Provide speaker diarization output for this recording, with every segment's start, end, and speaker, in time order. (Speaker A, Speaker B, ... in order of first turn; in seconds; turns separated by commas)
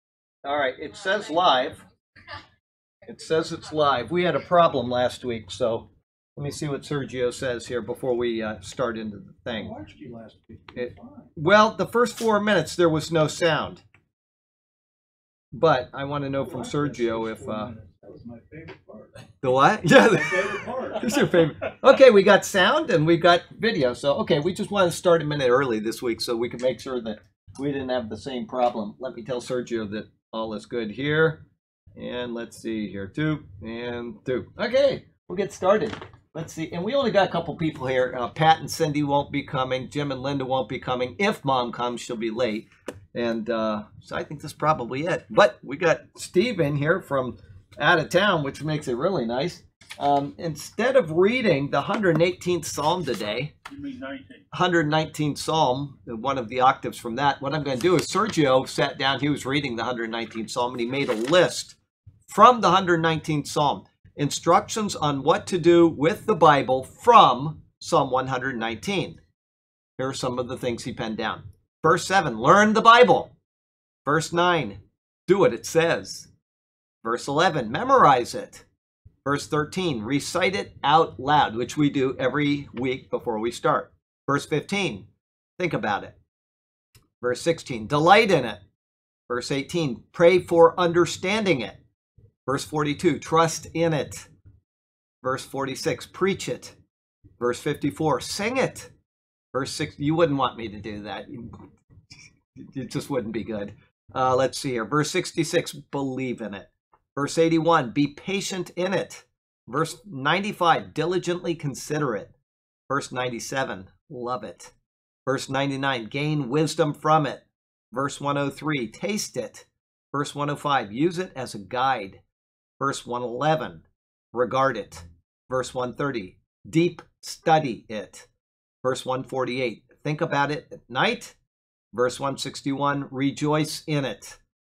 Speaker A: 0.4-1.8, Speaker A: 3.1-9.7, Speaker B: 9.6-11.3, Speaker A: 10.7-13.8, Speaker A: 15.5-17.7, Speaker B: 16.4-19.3, Speaker A: 19.4-31.4, Speaker B: 20.0-21.5, Speaker A: 32.0-53.5, Speaker B: 53.7-54.5, Speaker A: 54.5-61.8, Speaker A: 62.3-69.2, Speaker A: 70.0-73.3, Speaker A: 74.0-76.3, Speaker A: 77.0-78.7, Speaker A: 79.2-85.1, Speaker A: 85.6-86.2, Speaker A: 87.2-88.6, Speaker A: 89.3-91.8, Speaker A: 92.5-94.3, Speaker A: 95.2-96.8, Speaker A: 97.4-98.9, Speaker A: 99.5-101.7, Speaker A: 102.6-112.3, Speaker A: 112.9-114.7, Speaker A: 115.3-122.2, Speaker A: 122.8-128.3, Speaker A: 128.8-131.4, Speaker A: 131.9-134.4